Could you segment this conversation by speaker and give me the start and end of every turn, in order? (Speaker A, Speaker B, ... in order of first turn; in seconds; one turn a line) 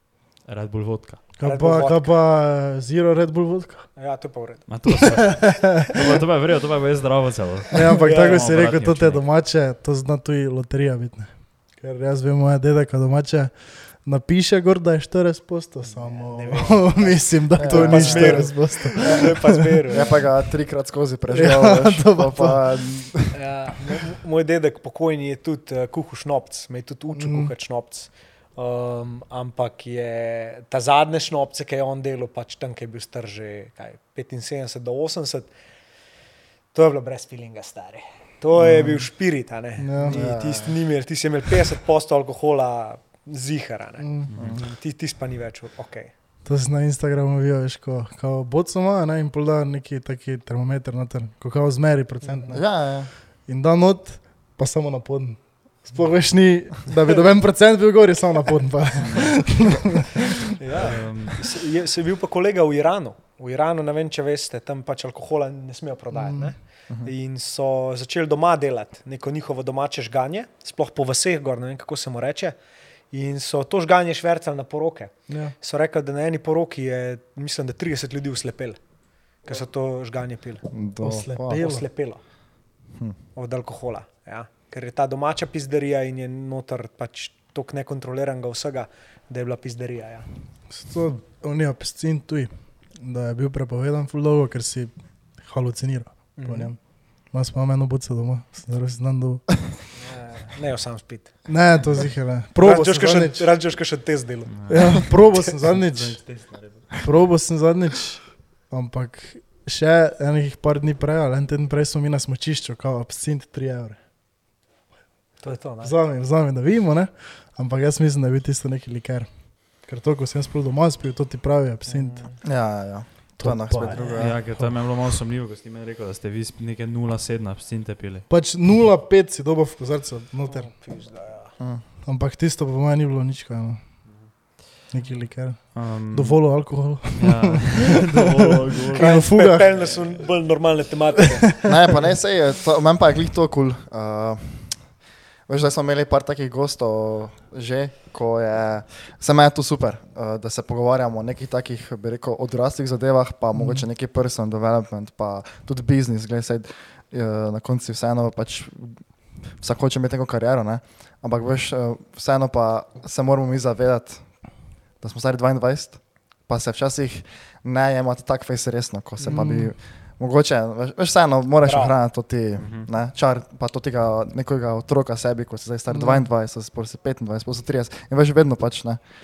Speaker A: 0.5-1.2
Speaker B: 1.4-3.9
Speaker C: 1.4-2.1
Speaker C: 4.0-5.3
Speaker A: 4.7-9.3
Speaker B: 5.3-5.6
Speaker B: 7.7-19.6
Speaker C: 8.0-8.6
Speaker C: 15.8-20.2
Speaker D: 17.5-19.2
Speaker D: 19.9-23.4
Speaker B: 21.3-22.8
Speaker C: 23.3-35.5
Speaker B: 27.2-27.5
Speaker C: 36.7-46.1
Speaker D: 38.6-39.0
Speaker B: 39.8-40.2
Speaker D: 40.0-40.8
Speaker B: 44.0-44.4
Speaker A: 44.3-44.7
Speaker B: 46.4-60.3
Speaker C: 52.2-52.5
Speaker D: 52.5-53.1
Speaker A: 59.0-59.4
Speaker C: 60.6-72.5
Speaker A: 60.7-61.4
Speaker B: 66.1-66.5
Speaker C: 73.1-78.8
Speaker B: 75.3-75.5
Speaker C: 79.4-80.6
Speaker D: 80.7-81.6
Speaker B: 81.0-81.8
Speaker C: 81.5-82.2
Speaker C: 83.3-90.3
Speaker B: 90.7-99.7
Speaker C: 96.3-96.7
Speaker C: 100.0-101.5
Speaker B: 101.5-103.5
Speaker C: 102.5-105.5
Speaker A: 104.5-106.9
Speaker B: 104.7-106.3
Speaker B: 106.9-114.0
Speaker C: 115.4-116.0
Speaker B: 115.8-122.3
Speaker C: 121.8-122.4
Speaker D: 122.4-124.4
Speaker B: 123.4-124.8
Speaker A: 123.7-128.3
Speaker C: 123.9-124.2
Speaker B: 128.3-130.7
Speaker C: 130.5-131.6
Speaker D: 131.6-131.8
Speaker B: 132.0-134.2
Speaker B: 134.9-138.1
Speaker A: 135.7-139.1
Speaker B: 138.9-139.7
Speaker C: 138.9-141.7
Speaker D: 141.6-179.0
Speaker B: 153.5-153.8
Speaker B: 169.2-169.7
Speaker C: 171.6-172.0
Speaker A: 172.6-172.9
Speaker B: 175.9-176.3